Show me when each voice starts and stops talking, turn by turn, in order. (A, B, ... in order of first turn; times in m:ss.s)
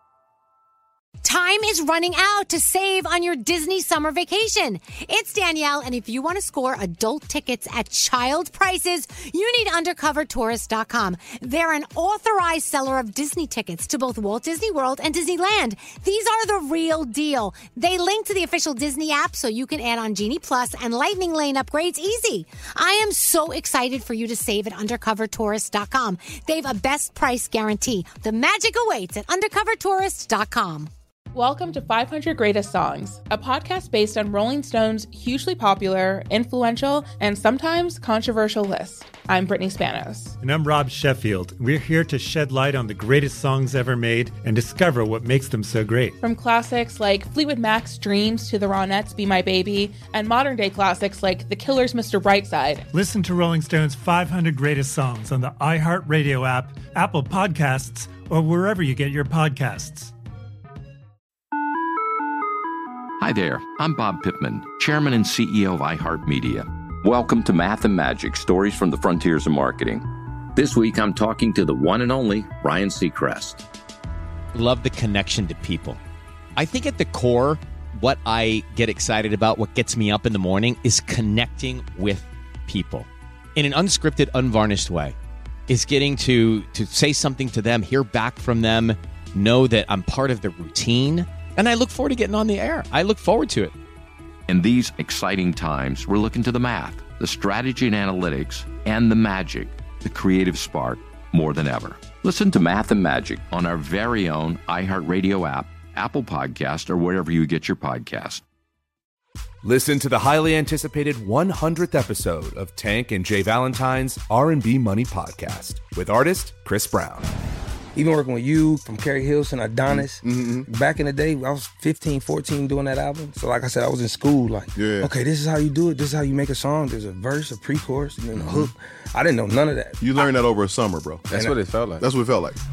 0:01.2-0:30.9 A
0:31.3-0:40.4 B
0:40.4-0:46.2 C
0:46.2-0:52.8 B
0:52.9-1:00.1 C
1:03.2-1:13.6 D
1:15.7-1:16.0 E
1:16.6-1:19.9 E
1:20.6-1:23.0 E
1:23.6-1:24.9 E
1:25.7-1:30.9 E
1:31.6-1:33.7 E
1:34.5-1:48.4 D
1:49.6-1:57.2 F
1:58.0-2:10.0 G
1:59.9-2:00.7 H
2:04.7-2:05.1 H
2:08.4-2:08.7 H
2:10.0-2:12.5 H
2:11.3-2:11.6 G